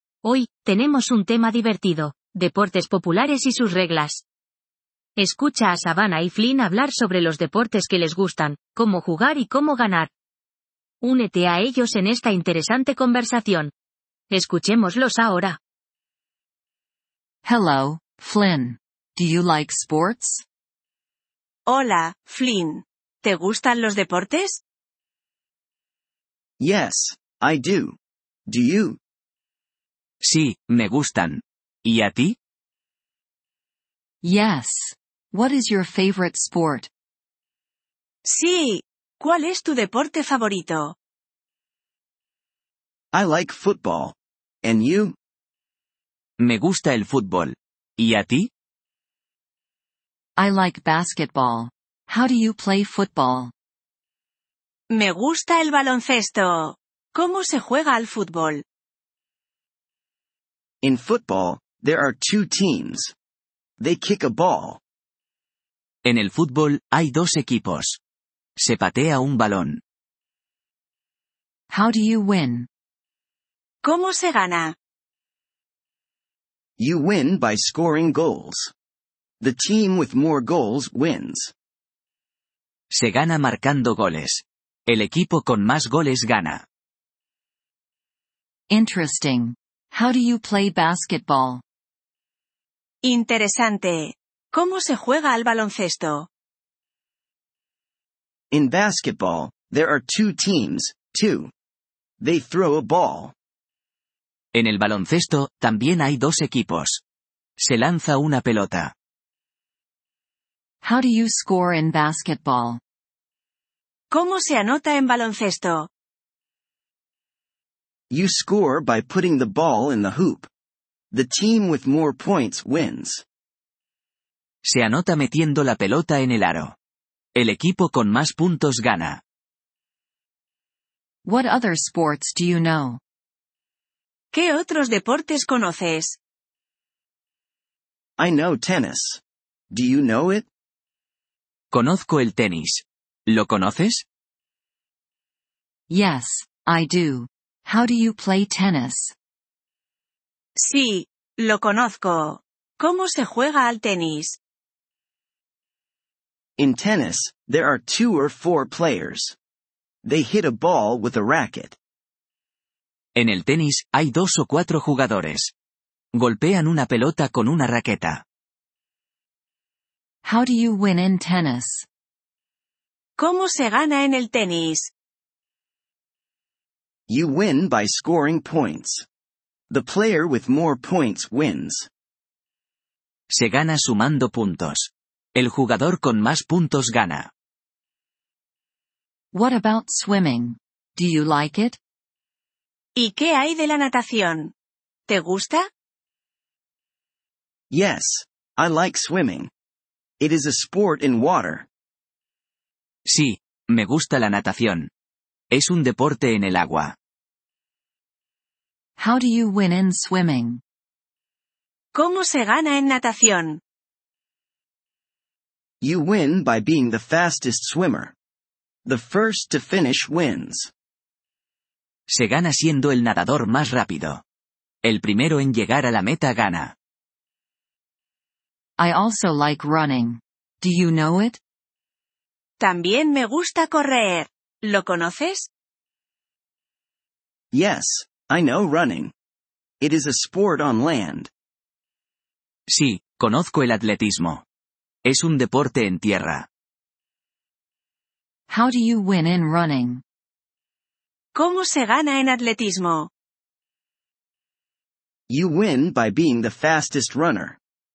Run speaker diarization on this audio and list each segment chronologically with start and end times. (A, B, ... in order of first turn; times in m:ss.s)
0:00.2-0:04.2 A
0:05.2-0:10.1 A
0:11.0-0:13.7 A
0:14.3-0:15.6 A
0:17.4-0:20.4 B
0:21.7-0:24.6 C
0:26.6-0:29.0 D
0:30.2-0:32.4 E
0:34.2-0:36.9 B
0:38.2-0:40.9 C
0:43.1-0:45.2 D
0:46.4-0:48.5 E
0:50.4-0:53.5 B
0:54.9-0:58.6 C
1:00.8-1:03.1 D
1:03.8-1:04.8 D
1:06.0-1:08.0 E
1:08.6-1:09.8 E
1:11.7-1:12.7 B
1:13.8-1:14.8 C
1:16.8-1:18.7 D
1:19.4-1:21.5 D
1:22.9-1:26.6 E
1:28.7-1:31.6 B
1:33.0-1:36.3 C
1:38.5-1:41.5 D
1:42.2-1:43.3 D
1:44.5-1:47.0 E
1:47.6-1:48.9 E
1:50.8-1:52.8 B
1:54.1-1:55.9 C
1:58.1-2:00.5 D
2:01.1-2:03.2 D
2:04.6-2:06.8 E
2:07.3-2:09.2 E
2:11.2-2:13.0 B
2:14.3-2:16.2 C
2:18.2-2:20.5 D
2:21.7-2:24.0 E
2:25.9-2:29.1 B
2:30.6-2:34.4 C
2:36.6-2:39.4 D
2:40.0-2:41.8 D
2:43.2-2:45.5 E
2:46.1-2:48.2 E
2:50.2-2:51.9 B
2:53.2-2:54.9 C
2:57.1-2:59.0 D
2:59.7-3:01.9 D
3:03.3-3:07.3 E
3:09.3-3:11.8 B
3:13.0-3:14.5 C
3:15.1-3:15.6 C
3:17.7-3:19.5 D
3:20.2-3:21.7 D
3:23.0-3:24.9 E
3:25.5-3:27.0 E
3:29.0-3:30.6 B
3:31.9-3:33.6 C
3:35.8-3:38.1 D
3:38.8-3:40.7 D
3:42.1-3:44.2 E
3:44.8-3:46.8 E
3:48.8-3:51.4 B
3:52.6-3:55.5 C
3:57.5-3:59.1 D
3:59.8-4:01.3 D
4:02.7-4:04.4 E
4:05.0-4:06.5 E
4:08.5-4:10.0 B
4:11.3-4:13.1 C
4:15.3-4:17.6 D